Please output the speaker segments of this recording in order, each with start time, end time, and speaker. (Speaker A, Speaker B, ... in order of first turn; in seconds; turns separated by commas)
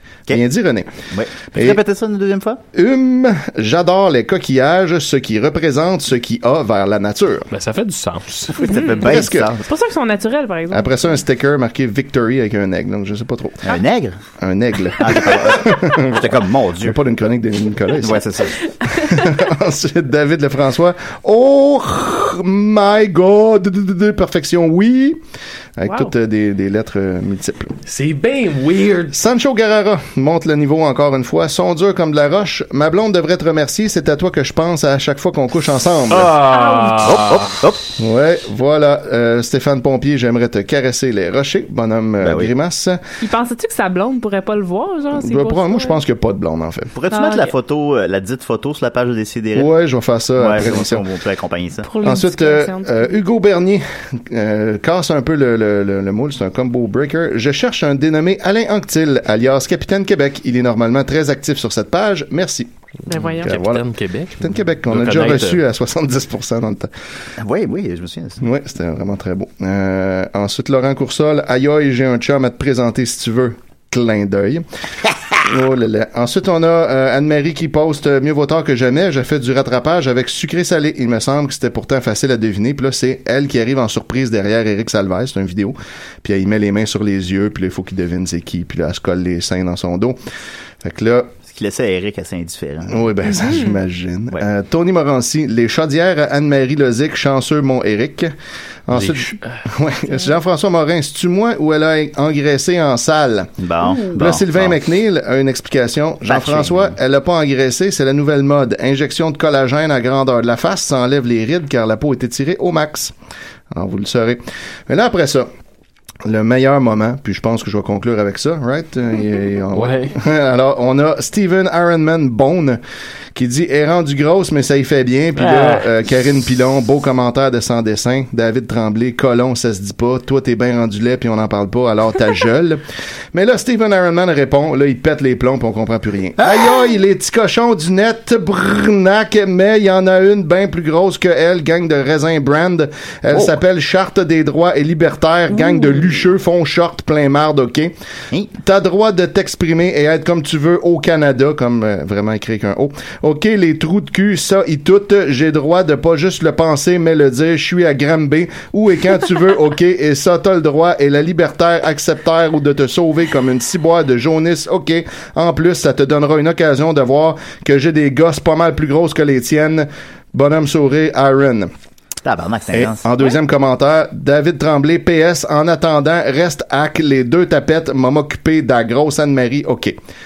Speaker A: 0.3-0.9, Speaker B: 1.1-2.6, Speaker A: 2.7-7.5, Speaker C: 7.5-8.6, Speaker D: 8.6-11.2, Speaker B: 8.6-9.6, Speaker A: 9.0-9.5, Speaker A: 10.7-13.7, Speaker B: 13.6-14.2, Speaker A: 14.4-16.3, Speaker B: 14.9-17.0, Speaker A: 16.8-25.2, Speaker B: 18.0-18.6, Speaker A: 25.8-27.7, Speaker D: 25.9-26.1, Speaker C: 27.8-29.1, Speaker A: 29.1-36.4, Speaker C: 36.1-37.6, Speaker D: 36.5-37.1, Speaker B: 37.0-37.9, Speaker A: 38.0-43.0, Speaker B: 42.2-42.5, Speaker D: 43.2-46.0, Speaker A: 45.1-46.9, Speaker B: 46.9-49.7, Speaker D: 47.1-47.5, Speaker A: 49.5-51.0, Speaker B: 50.4-51.9, Speaker D: 51.8-53.2, Speaker A: 52.0-63.9, Speaker D: 63.1-63.5, Speaker C: 63.2-65.6, Speaker A: 64.4-66.9, Speaker B: 67.4-68.4, Speaker A: 68.4-74.6, Speaker A: 75.4-90.2, Speaker A: 90.8-91.3, Speaker B: 91.5-93.4, Speaker A: 92.9-98.3, Speaker D: 93.2-93.8, Speaker A: 98.9-103.5, Speaker C: 98.9-99.7, Speaker B: 103.6-104.8, Speaker D: 103.8-104.1, Speaker A: 104.1-113.1, Speaker B: 106.3-107.0, Speaker A: 113.7-115.5, Speaker A: 116.2-122.8, Speaker C: 119.8-120.2, Speaker A: 123.3-132.8, Speaker C: 125.3-125.9, Speaker A: 133.3-147.9, Speaker B: 143.3-143.6, Speaker D: 145.5-146.1, Speaker A: 148.6-171.7, Speaker B: 172.2-173.1, Speaker A: 172.7-179.9